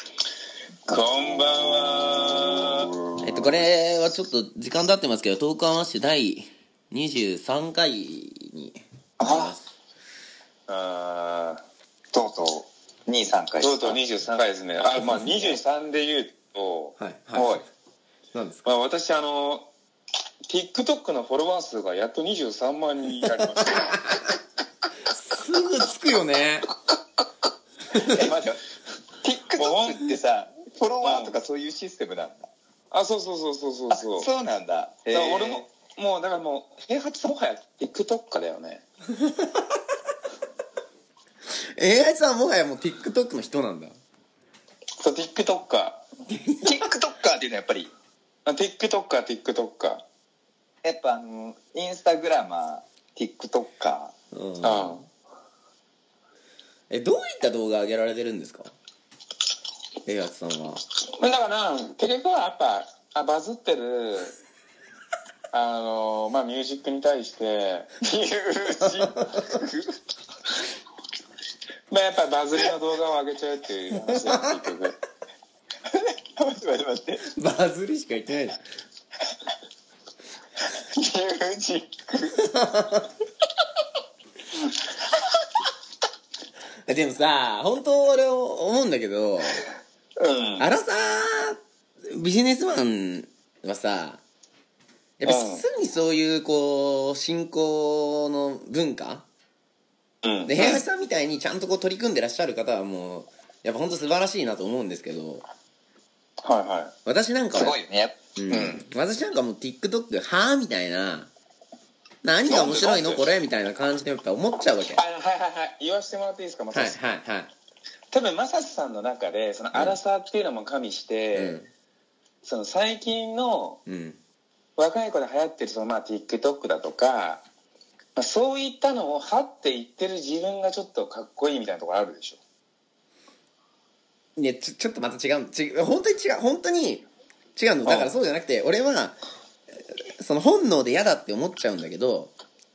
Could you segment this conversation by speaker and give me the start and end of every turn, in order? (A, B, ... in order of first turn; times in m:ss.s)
0:00.9-0:03.6 A
0:03.2-0:09.7 B
0:09.2-0:09.5 C
0:10.7-0:11.6 A
0:12.1-0:14.0 C
0:13.6-0:17.6 A
0:15.0-0:15.4 B
0:17.0-0:17.6 B
0:18.3-0:18.7 B
0:18.6-0:19.7 A
0:20.5-0:24.0 A
0:23.6-0:24.3 B
0:25.0-0:26.7 B
0:27.9-0:28.3 B
0:27.9-0:28.6 C
0:29.2-0:32.5 C
0:29.6-0:30.1 A
0:31.0-0:31.4 A
0:32.9-0:34.3 A
0:33.9-0:35.6 C
0:35.1-0:38.8 A
0:39.2-0:39.6 B
0:41.8-0:43.9 B
0:45.0-0:46.0 A
0:46.3-0:46.9 B
0:46.6-0:47.9 C
0:48.4-0:50.0 A
0:50.8-0:54.1 C
0:54.3-0:55.0 B
0:54.6-0:55.0 A
0:56.9-0:58.7 B
1:00.0-1:00.8 B
1:01.2-1:04.4 A
1:05.5-1:09.6 A
1:08.8-1:09.5 B
1:11.9-1:15.0 A
1:14.0-1:14.4 B
1:15.9-1:17.2 C
1:17.2-1:18.6 B
1:20.7-1:22.4 C
1:22.3-1:23.1 B
1:26.9-1:29.7 B
1:30.2-1:30.6 C
1:30.6-1:34.2 B
1:35.2-1:39.2 B
1:35.2-1:35.6 A
1:40.2-1:40.8 A
1:40.4-1:45.4 B
1:46.4-1:46.9 A
1:47.0-1:47.8 B
1:47.5-1:48.8 C
1:48.4-1:51.3 B
1:52.2-1:55.0 B
1:52.5-1:53.2 A
1:55.0-1:57.0 A
1:56.7-1:57.5 B
1:58.1-2:01.6 A
1:59.7-2:00.0 B
2:01.3-2:01.7 B
2:02.4-2:03.8 A
2:03.8-2:04.2 B
2:04.8-2:07.4 A
2:08.2-2:12.4 A
2:14.4-2:19.2 B
2:17.8-2:18.1 A
2:19.9-2:22.3 B